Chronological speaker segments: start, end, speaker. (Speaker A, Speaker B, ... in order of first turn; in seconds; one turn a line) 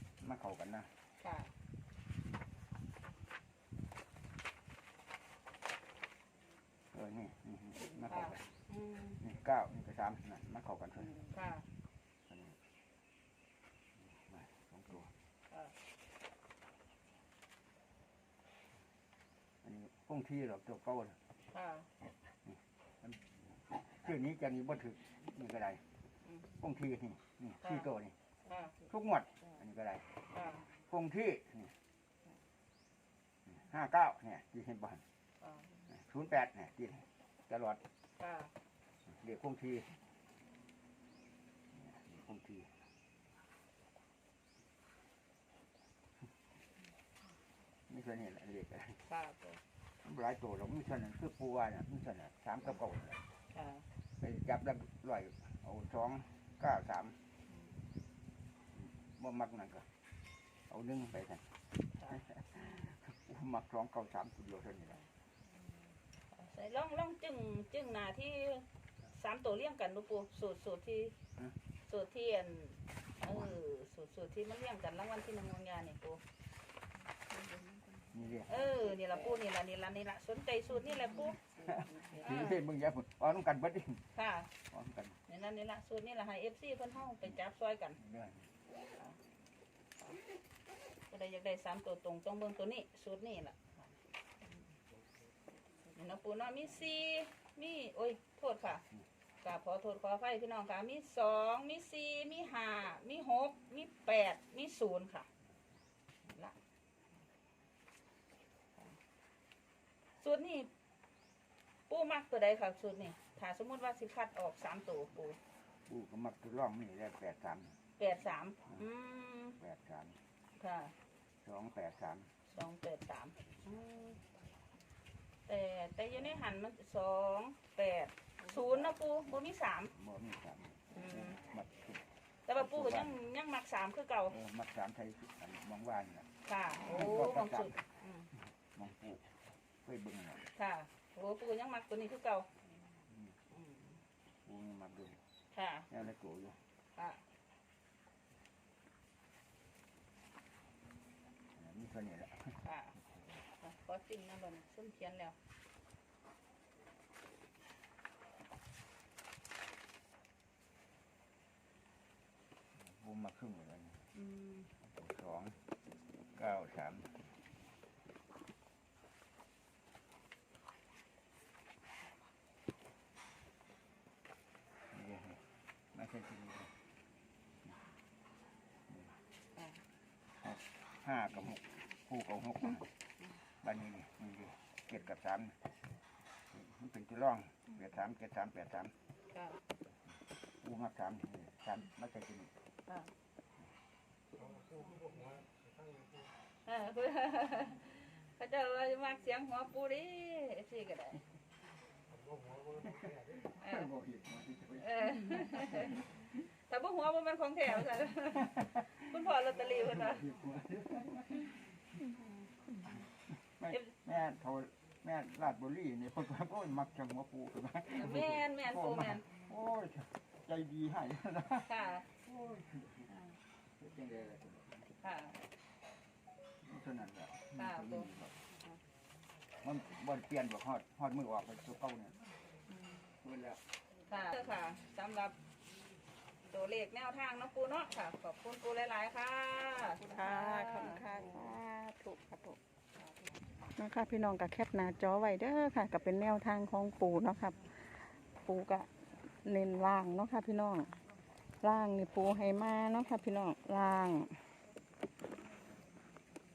Speaker A: 0.2-0.9
Speaker B: 1.2-1.5
Speaker A: 6.9-8.5
Speaker B: 8.1-9.2
Speaker A: 9.2-11.2
Speaker B: 11.3-11.7
Speaker A: 12.3-12.6
Speaker A: 14.0-15.1
Speaker A: 19.6-21.2
Speaker B: 21.5-21.9
Speaker A: 22.4-25.8
Speaker A: 26.6-28.1
Speaker B: 27.6-27.9
Speaker B: 28.5-28.8
Speaker A: 28.9-30.1
Speaker B: 30.3-30.7
Speaker A: 30.8-31.7
Speaker A: 33.5-35.0
Speaker B: 35.4-35.8
Speaker A: 35.9-37.8
Speaker B: 38.2-38.5
Speaker A: 39.1-40.0
Speaker A: 41.7-42.7
Speaker A: 47.9-49.0
Speaker B: 49.1-49.6
Speaker A: 50.0-53.2
Speaker B: 53.5-53.9
Speaker A: 54.2-57.1
Speaker B: 57.5-57.8
Speaker A: 58.7-59.9
Speaker A: 60.7-61.5
Speaker B: 61.9-62.2
Speaker A: 62.1-65.0
Speaker B: 66.3-71.1
Speaker B: 71.8-76.2
Speaker A: 78.1-78.7
Speaker B: 78.5-81.5
Speaker A: 81.6-84.0
Speaker B: 82.1-82.6
Speaker B: 84.1-84.5
Speaker A: 84.7-85.2
Speaker B: 85.3-88.0
Speaker A: 88.0-88.5
Speaker B: 91.1-93.8
Speaker B: 95.9-98.8
Speaker B: 99.4-105.3
Speaker B: 106.3-106.5
Speaker B: 110.2-110.7
Speaker B: 111.9-115.4
Speaker A: 115.9-117.8
Speaker B: 118.0-119.6
Speaker A: 119.6-120.2
Speaker B: 120.6-120.9
Speaker A: 121.4-122.3
Speaker B: 122.5-124.2
Speaker B: 125.5-129.9
Speaker A: 129.9-132.0
Speaker B: 130.9-131.4
Speaker B: 132.5-134.3
Speaker A: 132.5-133.2
Speaker A: 134.3-136.3
Speaker B: 136.4-138.3
Speaker A: 136.8-137.8
Speaker A: 138.5-139.2
Speaker A: 139.8-140.5
Speaker B: 140.6-142.5
Speaker A: 143.1-143.3
Speaker B: 143.5-144.0
Speaker A: 144.4-145.2
Speaker B: 145.5-145.9
Speaker A: 145.9-146.6
Speaker B: 146.9-147.2
Speaker A: 151.5-152.6
Speaker B: 152.6-152.9
Speaker A: 153.1-153.3
Speaker B: 153.6-155.3
Speaker A: 162.8-164.0
Speaker B: 164.1-164.7
Speaker A: 164.8-165.6
Speaker A: 166.3-167.2
Speaker A: 174.9-176.7
Speaker A: 178.9-179.2
Speaker A: 180.4-182.9
Speaker A: 183.6-185.6
Speaker A: 186.5-188.9
Speaker B: 189.3-189.6
Speaker A: 190.6-192.5
Speaker B: 192.9-193.1
Speaker B: 194.5-195.4
Speaker B: 196.6-201.2
Speaker B: 203.6-203.9
Speaker A: 203.6-206.2
Speaker B: 204.8-210.2
Speaker A: 209.6-211.6
Speaker A: 213.3-221.7
Speaker B: 217.9-219.3
Speaker B: 221.7-222.1
Speaker A: 222.2-223.3
Speaker A: 223.8-224.9
Speaker B: 225.0-225.4
Speaker A: 226.6-228.3
Speaker B: 227.5-228.1
Speaker A: 229.6-232.2
Speaker A: 233.2-233.6
Speaker B: 234.1-235.3
Speaker B: 236.4-241.0
Speaker C: 240.0-242.6
Speaker C: 243.7-250.9
Speaker C: 251.6-254.4